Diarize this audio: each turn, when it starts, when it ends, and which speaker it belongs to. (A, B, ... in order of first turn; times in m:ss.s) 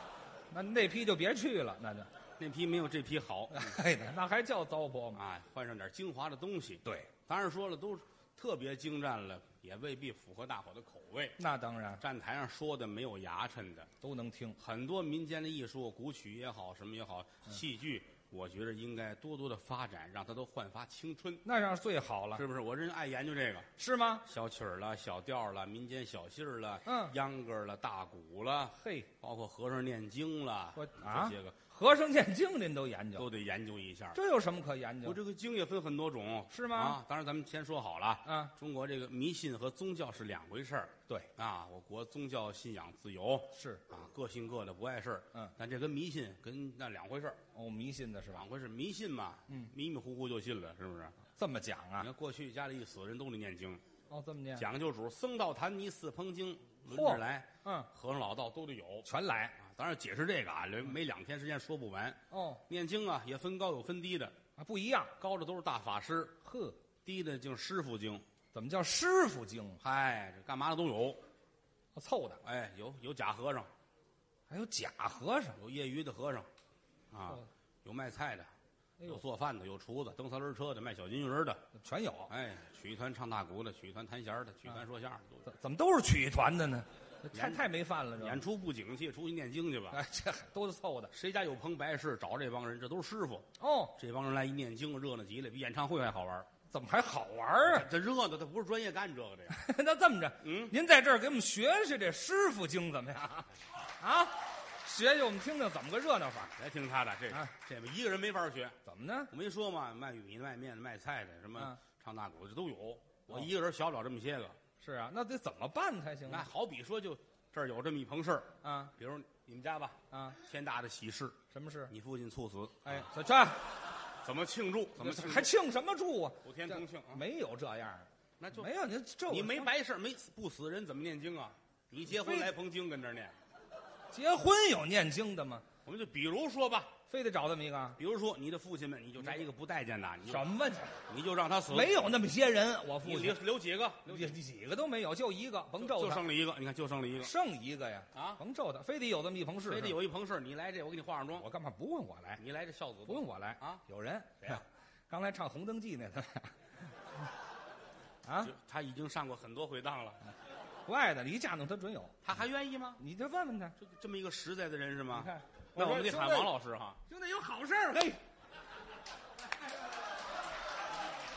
0:00.5-0:02.1 A
0:02.4-0:03.8 B
0:03.5-0:05.2 A
0:05.2-0:11.4 B
0:06.8-0:07.1 A
0:11.4-0:12.0 A
0:12.0-0:13.9 B
0:14.0-0:14.6 A
0:14.6-0:21.4 B
0:21.4-0:22.4 A
0:22.4-0:23.7 B
0:23.8-0:24.2 A
0:24.3-0:31.6 B
0:26.8-0:27.1 A
0:28.8-0:29.1 A
0:30.8-0:33.3 A
0:33.2-0:34.2 B
0:34.2-0:35.2 A
0:35.0-0:47.4 B
0:36.5-0:37.0 A
0:38.2-0:38.5 A
0:43.5-0:43.8 A
0:47.6-0:48.4 A
0:48.3-0:51.2 B
0:51.4-0:52.1 A
0:52.0-0:53.8 B
0:54.1-0:54.6 A
0:54.6-1:04.4 B
0:56.9-0:57.9 A
0:59.1-0:59.6 A
1:02.3-1:02.6 A
1:04.6-1:05.1 A
1:05.2-1:06.4 B
1:06.4-1:06.8 A
1:07.0-1:08.2 B
1:08.5-1:09.8 A
1:09.8-1:11.2 B
1:12.0-1:12.4 A
1:12.4-1:13.7 B
1:14.5-1:15.6 A
1:15.6-1:16.5 B
1:17.1-1:18.5 B
1:19.1-1:21.7 B
1:21.8-1:22.3 A
1:22.3-1:25.4 B
1:25.5-1:28.4 A
1:27.3-1:27.6 B
1:28.2-1:30.0 B
1:29.9-1:31.1 A
1:31.1-1:36.5 B
1:33.6-1:33.9 A
1:36.7-1:37.9 A
1:37.7-1:39.6 B
1:39.5-1:46.6 A
1:40.4-1:40.7 B
1:46.6-1:48.8 B
1:48.8-1:49.3 A
1:49.3-1:54.6 B
1:54.8-1:56.5 A
1:56.3-2:01.4 B
1:58.6-1:58.9 A
2:00.1-2:00.4 A
2:01.5-2:01.9 A
2:01.9-2:03.0 B
2:02.8-2:03.6 A
2:04.2-2:05.5 B
2:05.0-2:09.7 A
2:06.4-2:07.2 B
2:08.4-2:08.7 B
2:09.3-2:13.4 B
2:12.1-2:12.5 A
2:14.1-2:15.6 A
2:15.9-2:17.0 B
2:17.1-2:18.0 A
2:18.0-2:20.5 B
2:20.3-2:21.0 A
2:21.1-2:22.0 B
2:21.7-2:23.4 A
2:23.0-2:24.4 B
2:24.1-2:26.2 A
2:25.8-2:27.3 B
2:27.2-2:30.0 A
2:28.1-2:28.4 B
2:29.7-2:31.5 B
2:31.4-2:32.4 A
2:32.4-2:33.8 B
2:33.1-2:36.6 A
2:38.2-2:38.5 A
2:38.4-2:40.2 B
2:40.9-2:42.2 A
2:42.2-2:43.0 B
2:43.0-2:43.8 A
2:43.8-2:47.0 B
2:45.1-2:46.5 A
2:47.1-2:48.2 A